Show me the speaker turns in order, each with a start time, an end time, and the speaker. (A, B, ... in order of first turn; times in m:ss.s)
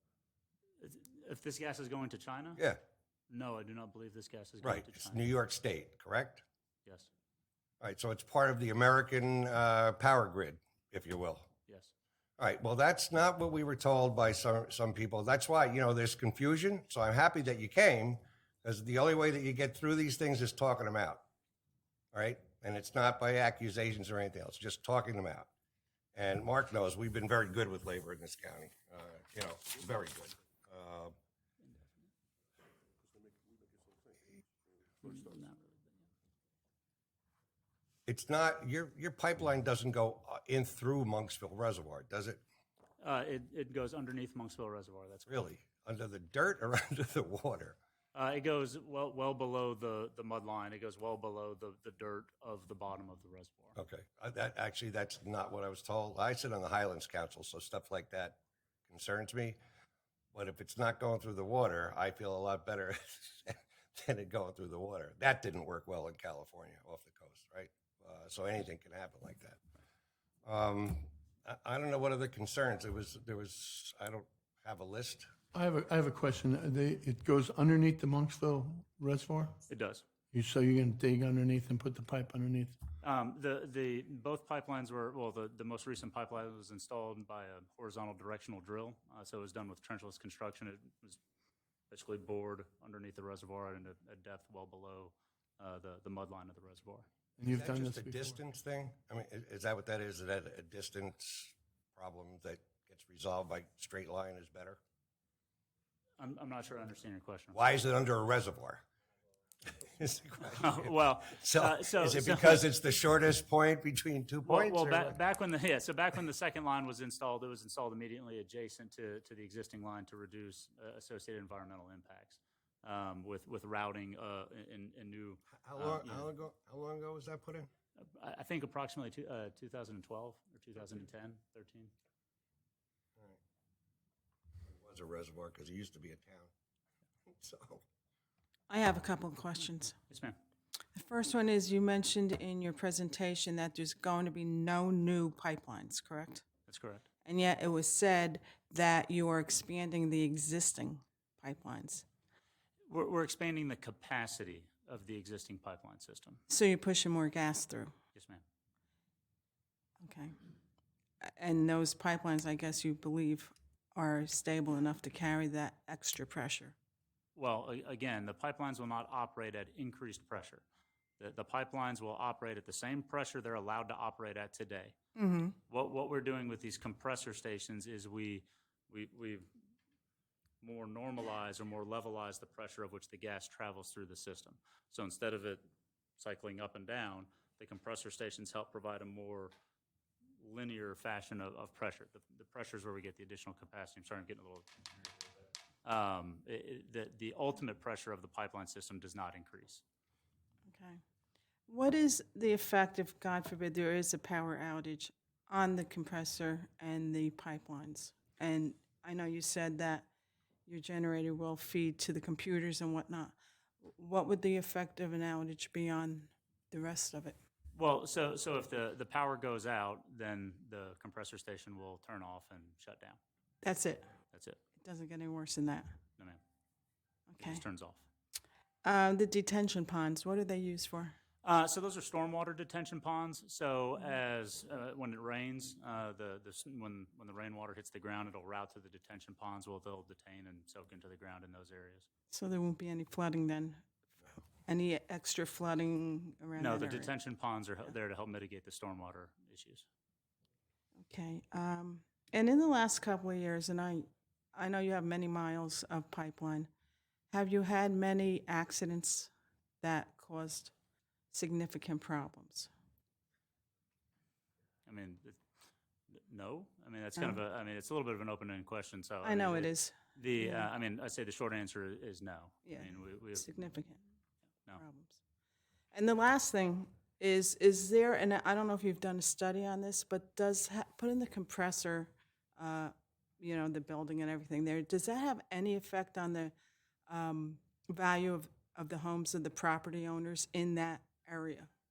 0:00.8-0:02.6 A
0:03.3-0:05.3 A
0:04.6-0:06.4 B
0:07.8-0:11.5 B
0:11.7-0:11.9 A
0:12.4-0:21.2 B
0:22.1-0:25.5 B
0:26.1-0:31.1 B
0:31.6-0:31.9 A
0:35.0-0:35.9 A
0:38.1-0:42.4 B
0:43.0-0:45.4 A
0:45.3-0:47.8 B
0:48.1-0:53.8 A
0:53.8-0:58.4 B
0:58.9-0:59.6 B
1:00.3-1:09.6 B
1:10.4-1:15.3 B
1:15.5-1:19.6 C
1:19.7-1:20.0 A
1:20.3-1:22.8 C
1:23.0-1:31.2 A
1:31.9-1:37.1 A
1:37.4-1:38.4 C
1:37.5-1:44.8 B
1:46.2-1:47.6 A
1:47.5-1:48.8 B
1:49.8-1:55.2 B
1:50.4-1:52.6 A
1:54.4-2:06.3 A
2:05.6-2:07.7 B
2:08.0-2:11.9 A
2:14.8-2:16.5 B
2:17.4-2:17.8 B
2:18.7-2:20.0 D
2:20.1-2:20.4 A
2:20.9-2:26.4 D
2:26.7-2:27.1 A
2:27.2-2:32.0 D
2:32.9-2:36.4 A
2:36.5-2:37.9 D
2:38.1-2:38.4 A
2:40.0-2:40.3 D
2:41.2-2:46.7 D
2:47.3-2:50.6 A
2:51.2-2:54.9 A
2:55.2-2:55.6 D
2:55.7-2:59.5 A
3:00.6-3:05.6 A
3:06.2-3:09.5 A
3:10.4-3:14.9 A
3:15.8-3:19.8 A
3:20.7-3:21.0 D
3:21.7-3:30.1 D
3:30.6-3:37.4 D
3:37.8-3:43.2 A
3:43.6-3:44.1 D
3:44.3-3:44.6 A
3:44.8-3:45.9 D
3:47.3-3:47.6 D
3:47.4-3:48.0 A
3:48.8-3:51.1 D
3:51.4-4:02.0 A
4:02.3-4:03.8 D
4:04.6-4:07.1 D
4:06.6-4:09.8 A
4:11.0-4:16.7 D
4:17.3-4:20.7 D
4:21.3-4:22.7 D
4:24.8-4:25.4 A
4:26.1-4:33.5 A
4:29.2-4:30.7 D
4:32.6-4:34.0 D
4:34.7-4:35.2 D
4:35.9-4:46.5 D
4:47.1-4:51.7 D